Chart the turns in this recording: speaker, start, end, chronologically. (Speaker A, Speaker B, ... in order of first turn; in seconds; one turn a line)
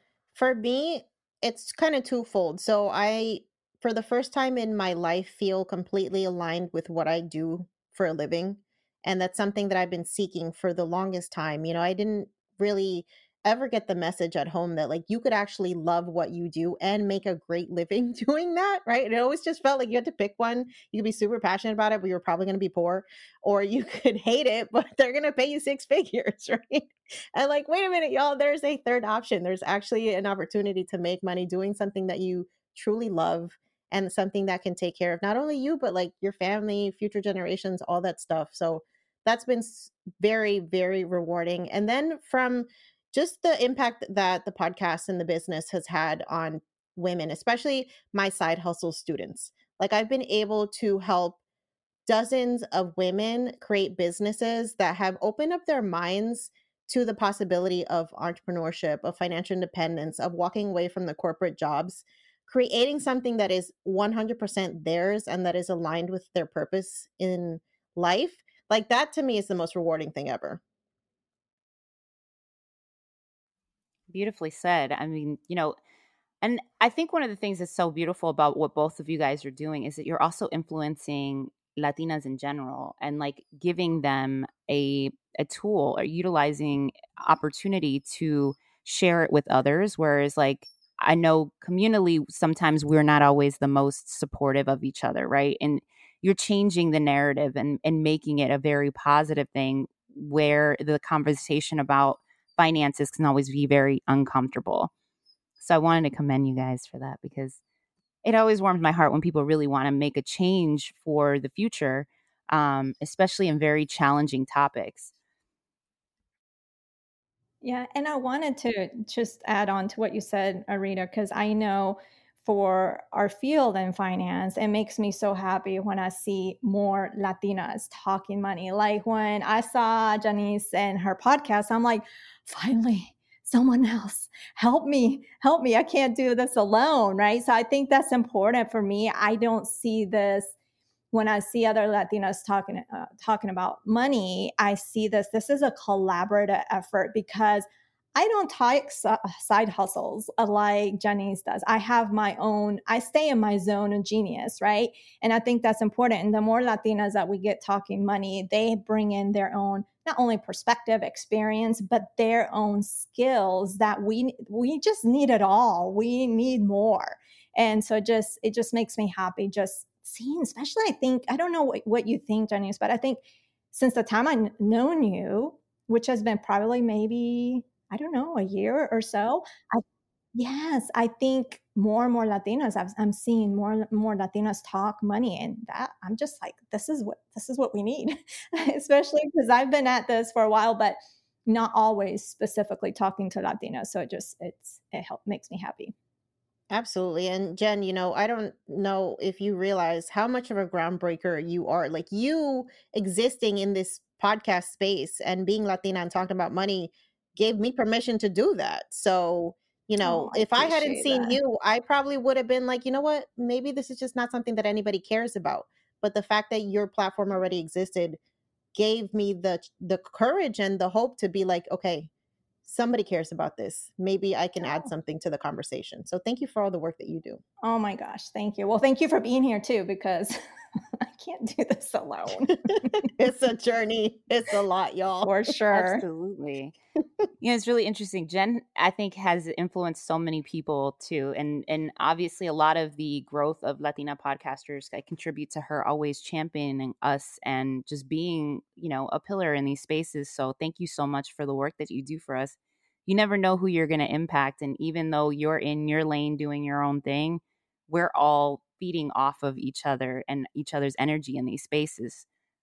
Speaker A: 0.3-51.4
Speaker A: 52.1-70.6
Speaker B: 74.1-75.8
Speaker B: 76.4-104.9
Speaker B: 105.6-107.6
Speaker B: 108.2-115.1
Speaker C: 117.6-140.5
Speaker C: 141.1-173.2
Speaker C: 173.7-179.8
Speaker C: 180.4-195.9
Speaker A: 196.7-218.2
Speaker C: 210.0-211.3
Speaker A: 218.8-222.1
Speaker A: 222.7-227.4
Speaker C: 227.6-230.4
Speaker C: 231.0-233.0
Speaker A: 233.2-235.3
Speaker C: 235.2-236.0
Speaker B: 235.7-236.8
Speaker B: 237.4-262.3